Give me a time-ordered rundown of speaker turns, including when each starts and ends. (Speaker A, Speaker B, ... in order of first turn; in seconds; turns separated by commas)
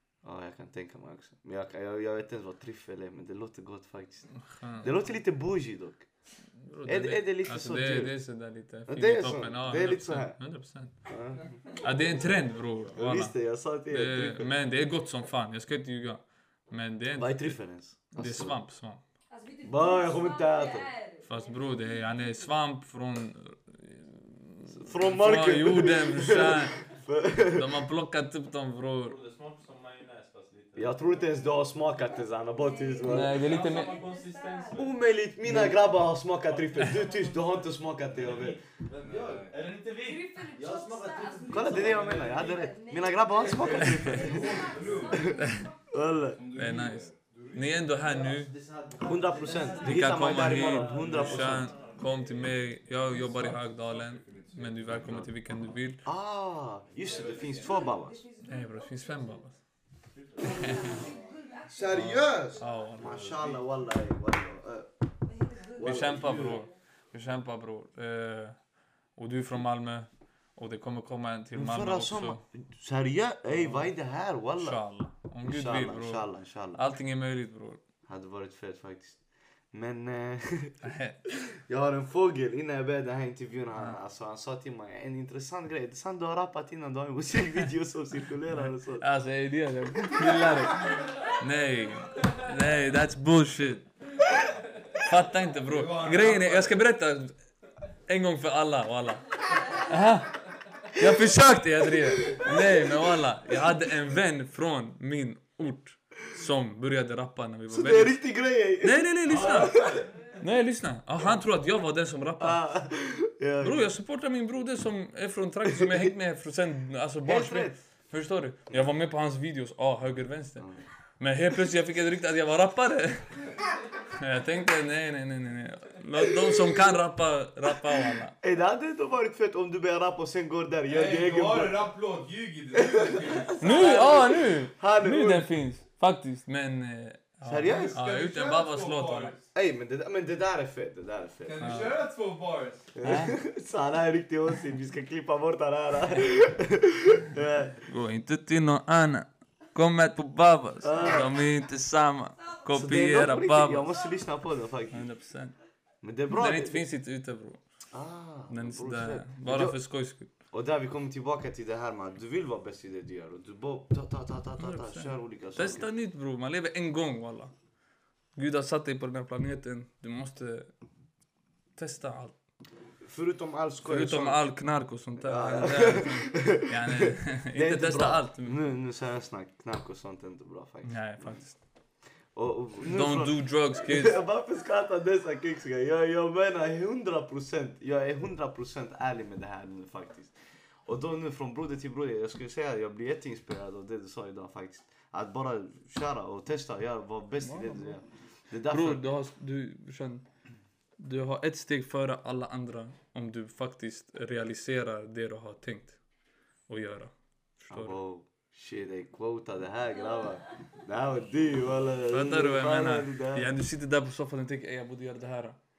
Speaker A: 0.2-6.1, Speaker B: 4.4-5.1, Speaker B: 6.6-11.1, Speaker A: 6.9-8.2, Speaker A: 8.9-10.5, Speaker A: 11.0-11.8, Speaker B: 11.7-19.0, Speaker A: 12.9-14.5, Speaker A: 17.1-18.6, Speaker C: 19.3-22.3, Speaker A: 19.6-20.9, Speaker B: 21.2-26.9, Speaker A: 24.7-27.8, Speaker B: 27.4-29.2, Speaker D: 29.1-31.4, Speaker A: 30.8-33.4, Speaker C: 32.0-34.9, Speaker B: 33.0-34.0, Speaker D: 33.2-35.0, Speaker A: 34.8-38.6, Speaker B: 35.5-35.8, Speaker D: 36.3-42.6, Speaker E: 39.0-39.6, Speaker C: 40.0-45.8, Speaker A: 41.5-46.4, Speaker D: 43.4-45.2, Speaker E: 43.7-45.4, Speaker B: 43.8-44.3, Speaker B: 45.4-45.7, Speaker E: 46.2-48.1, Speaker B: 46.5-48.5, Speaker D: 48.0-52.6, Speaker A: 49.0-51.7, Speaker C: 49.5-49.9, Speaker B: 49.8-56.0, Speaker E: 51.0-51.6, Speaker C: 51.6-52.0, Speaker E: 52.4-55.3, Speaker A: 55.0-55.3, Speaker A: 56.0-58.3, Speaker D: 57.0-57.9, Speaker C: 57.1-59.5, Speaker E: 57.1-57.6, Speaker B: 58.4-59.6, Speaker D: 60.1-61.4, Speaker C: 60.4-62.5, Speaker B: 60.6-61.0, Speaker E: 60.7-61.1, Speaker A: 61.7-66.6, Speaker E: 61.8-62.1, Speaker B: 61.9-63.2, Speaker E: 63.0-63.9, Speaker C: 65.3-66.6, Speaker B: 65.8-72.4, Speaker A: 71.5-74.8, Speaker B: 73.5-73.9, Speaker B: 74.6-77.8, Speaker A: 75.4-76.8, Speaker A: 78.1-89.1, Speaker B: 80.8-81.2, Speaker B: 88.5-93.9, Speaker B: 95.0-97.3, Speaker E: 95.7-96.8, Speaker B: 98.1-108.2, Speaker A: 102.2-103.7, Speaker A: 107.7-110.1, Speaker B: 108.8-112.8, Speaker E: 109.3-110.0, Speaker A: 112.4-113.9, Speaker B: 113.6-128.4, Speaker A: 117.2-117.8, Speaker A: 128.4-131.9, Speaker E: 130.9-133.9, Speaker A: 132.8-135.5, Speaker B: 133.6-139.3, Speaker A: 137.4-138.0, Speaker E: 137.7-139.4, Speaker A: 139.5-141.9, Speaker E: 141.4-142.9, Speaker B: 141.6-141.9, Speaker A: 142.9-147.8, Speaker B: 143.0-143.4, Speaker B: 147.9-153.9, Speaker A: 150.8-151.4, Speaker A: 152.7-155.1, Speaker B: 154.9-155.6, Speaker A: 156.0-156.8, Speaker B: 156.3-157.6, Speaker A: 157.9-159.8, Speaker B: 158.5-160.3, Speaker A: 160.4-165.9, Speaker B: 164.6-167.5, Speaker B: 168.3-170.7, Speaker B: 171.8-172.3, Speaker A: 173.0-174.4, Speaker B: 173.8-178.6, Speaker A: 175.2-199.1, Speaker B: 180.8-181.6, Speaker B: 182.8-184.2, Speaker B: 197.4-198.0, Speaker B: 198.6-200.3, Speaker B: 201.0-206.0, Speaker B: 206.7-208.0, Speaker A: 207.7-213.5, Speaker B: 212.1-215.6